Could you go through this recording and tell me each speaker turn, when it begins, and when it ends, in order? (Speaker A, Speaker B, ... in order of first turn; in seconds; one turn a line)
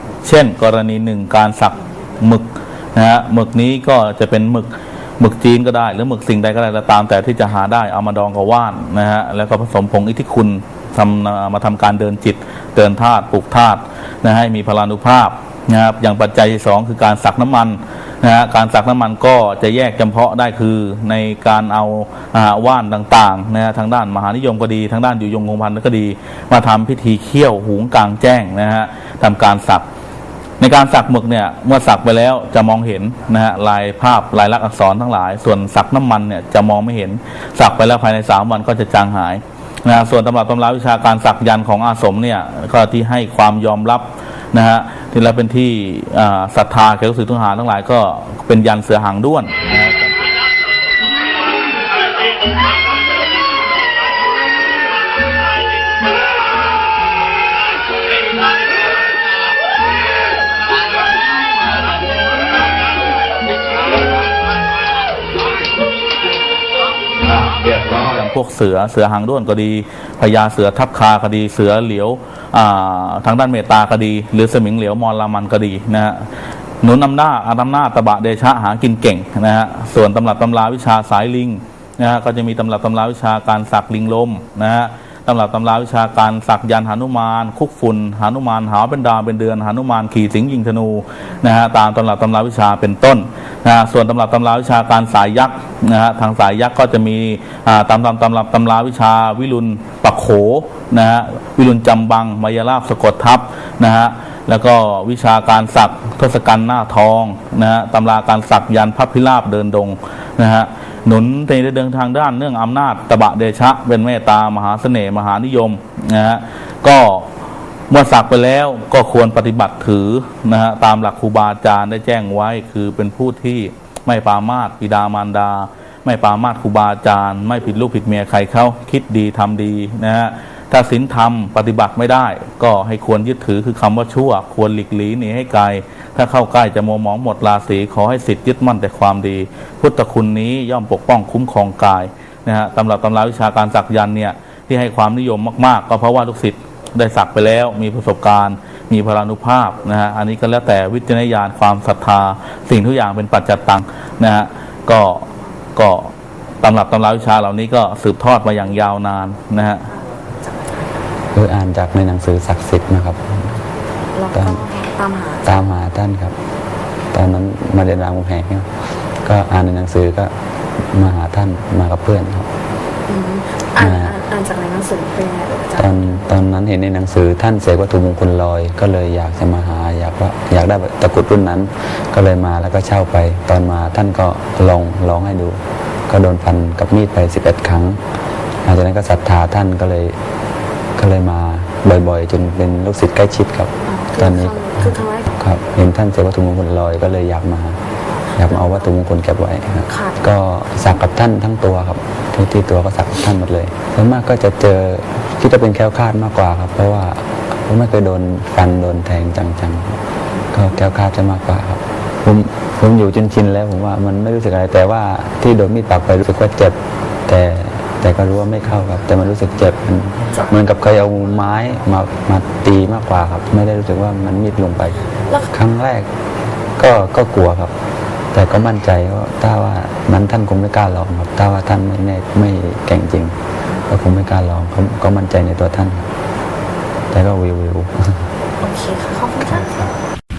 Speaker A: 0.2-29.9
Speaker A: 30.6-50.1
Speaker A: 67.3-76.2
Speaker A: 76.8-117.3
Speaker A: 117.9-159.9
Speaker B: 160.4-161.1
Speaker C: 161.3-163.6
Speaker B: 164.1-165.4
Speaker C: 164.3-164.7
Speaker C: 165.4-166.3
Speaker C: 167.1-168.7
Speaker C: 169.2-170.3
Speaker C: 170.9-172.5
Speaker B: 173.1-175.9
Speaker C: 173.8-174.2
Speaker C: 175.8-188.0
Speaker C: 188.7-190.2
Speaker C: 191.0-197.8
Speaker B: 193.9-195.3
Speaker B: 198.3-198.6
Speaker C: 198.3-210.0
Speaker C: 210.5-226.1
Speaker C: 226.8-227.7
Speaker C: 228.3-233.3
Speaker C: 233.9-236.1
Speaker C: 237.1-238.0
Speaker B: 238.6-239.9